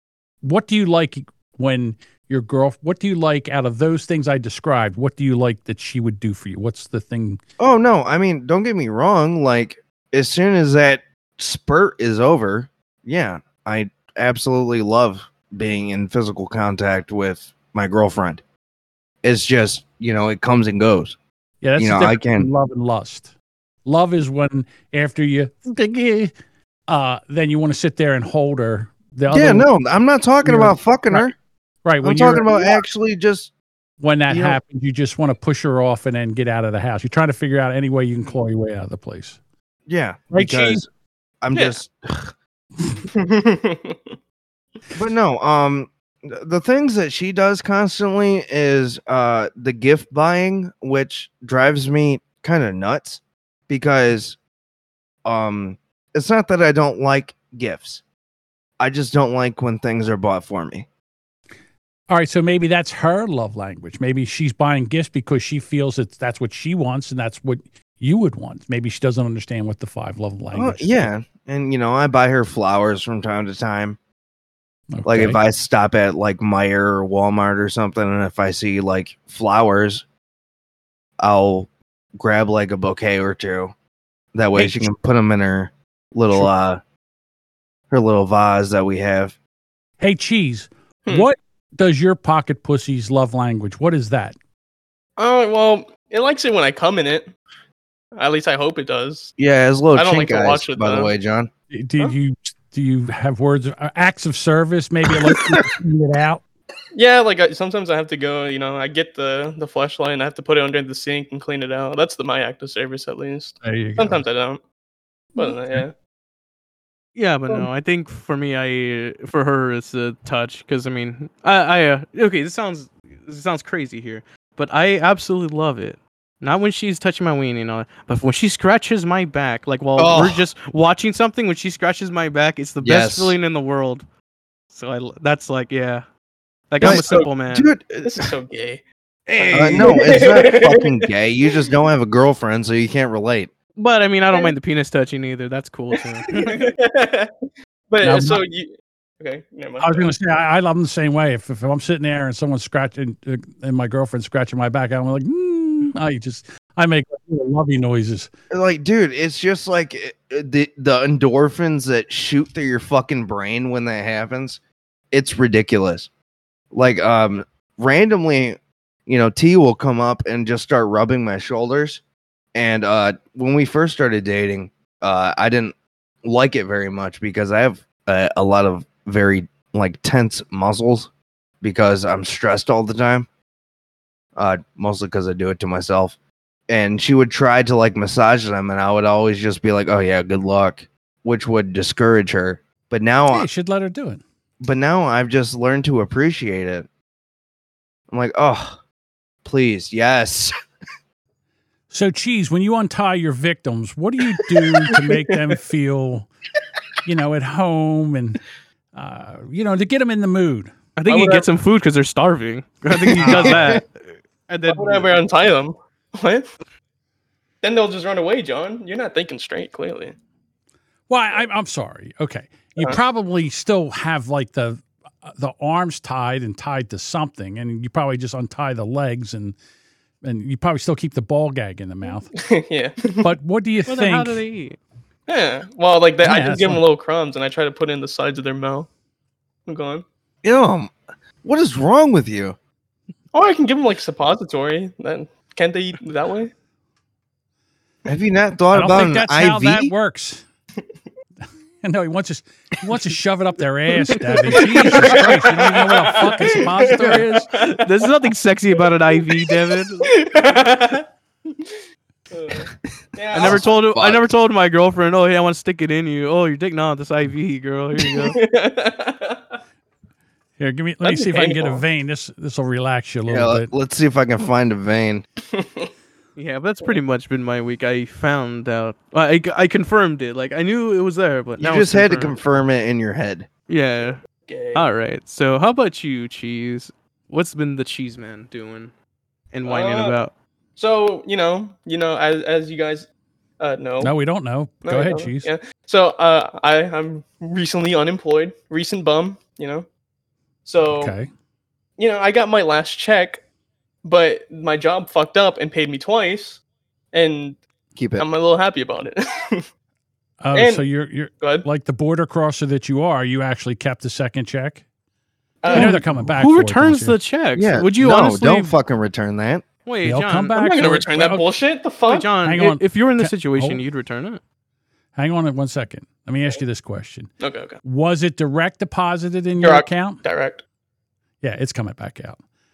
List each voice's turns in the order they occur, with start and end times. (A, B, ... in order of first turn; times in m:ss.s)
0:00.4-0:07.4 A
0:07.6-0:18.4 B
0:19.2-0:21.2 B
0:21.6-0:23.3 A
0:21.8-0:22.5 B
0:23.8-0:26.3 A
0:26.9-0:29.7 A
0:29.3-0:31.4 B
0:30.4-0:31.3 A
0:31.8-0:32.8 A
0:32.0-0:33.5 B
0:34.0-0:39.4 A
0:34.3-0:34.6 B
0:39.9-0:40.9 B
0:40.3-0:40.8 A
0:41.4-0:42.3 B
0:41.5-0:41.8 C
0:43.1-0:44.1 C
0:44.9-0:54.4 B
0:55.2-0:58.0 B
0:58.8-1:00.9 B
1:02.1-1:11.0 A
1:10.5-1:14.0 B
1:14.9-1:15.4 A
1:15.0-1:20.0 B
1:21.2-1:23.7 B
1:24.3-1:26.8 B
1:24.6-1:24.9 A
1:27.9-1:29.4 B
1:30.0-1:34.4 A
1:35.2-1:37.3 C
1:38.2-1:39.4 C
1:39.4-1:41.5 B
1:39.9-1:41.1 C
1:41.7-1:46.4 A
1:46.9-1:54.6 C
1:53.6-1:54.2 A
1:55.4-1:55.9 C
1:55.4-1:55.8 A
1:57.2-2:14.0 D
2:10.0-2:10.5 B
2:12.8-2:13.4 B
2:14.7-2:16.0 D
2:16.7-2:17.7 D
2:16.8-2:17.3 C
2:16.8-2:18.3 B
2:18.0-2:18.8 C
2:19.3-2:20.3 D
2:19.4-2:21.1 C
2:19.5-2:23.5 B
2:23.8-2:26.7 D
2:26.3-2:27.3 C
2:27.9-2:30.1 C
2:28.0-2:28.4 A
2:29.8-2:38.3 A
2:38.5-2:44.6 B
2:45.1-2:46.1 B
2:46.7-2:52.0 B
2:52.6-3:01.1 B
3:01.6-3:03.3 B
3:04.4-3:06.2 B
3:06.7-3:13.5 B
3:13.3-3:14.2 A
3:14.6-3:16.9 B
3:18.1-3:18.8 B
3:19.4-3:20.5 B
3:21.9-3:26.3 A
3:27.0-3:28.4 A
3:29.0-3:30.8 A
3:31.0-3:34.0 D
3:31.1-3:31.5 C
3:33.2-3:33.8 A
3:33.4-3:33.8 B
3:34.5-3:35.2 D
3:34.7-3:36.5 C
3:37.6-3:40.2 C
3:41.1-3:49.6 A
3:50.2-3:52.3 A
3:52.4-3:53.3 C
3:53.2-3:54.4 A
3:53.9-3:54.8 D
3:55.3-3:58.9 C
3:56.2-3:56.8 A
3:59.7-4:00.0 C
4:00.4-4:00.9 B
4:01.4-4:02.6 B
4:03.3-4:06.5 C
4:08.1-4:09.9 B
4:08.7-4:10.4 A
4:11.8-4:17.5 A
4:14.5-4:18.1 C
4:17.6-4:20.1 D
4:19.4-4:21.8 C
4:22.3-4:23.8 C
4:23.3-4:28.4 D
4:23.3-4:24.2 B
4:28.0-4:29.4 C
4:30.6-4:33.7 A
4:31.0-4:31.8 C
4:33.3-4:35.2 B
4:35.5-4:35.9 C
4:36.4-4:42.4 D
4:41.6-4:43.5 B
4:43.7-4:44.2 D
4:44.5-4:44.9 C
4:44.8-4:48.9 D
4:49.5-4:50.3 D
4:49.6-4:50.2 C
4:50.8-4:53.1 C
4:53.6-4:54.1 C
4:54.0-4:55.5 A
4:54.8-4:59.9 C
5:00.6-5:01.2 C
5:00.8-5:01.3 A
5:02.0-5:03.4 C
5:04.0-5:06.6 C
5:07.1-5:07.6 C
5:08.0-5:08.3 B
5:08.2-5:09.7 C
5:10.4-5:14.8 A
5:10.5-5:10.8 C
5:11.4-5:11.7 C
5:15.6-5:16.0 C
5:15.7-5:18.8 D
5:15.7-5:17.2 A
5:17.6-5:19.6 B
5:19.9-5:20.6 D
5:20.0-5:21.5 A
5:20.6-5:22.3 C
5:22.1-5:24.4 D
5:22.4-5:23.8 A
5:25.2-5:27.3 A
5:27.4-5:27.8 C
5:27.8-5:30.2 A
5:29.6-5:30.6 C
5:31.4-5:32.4 A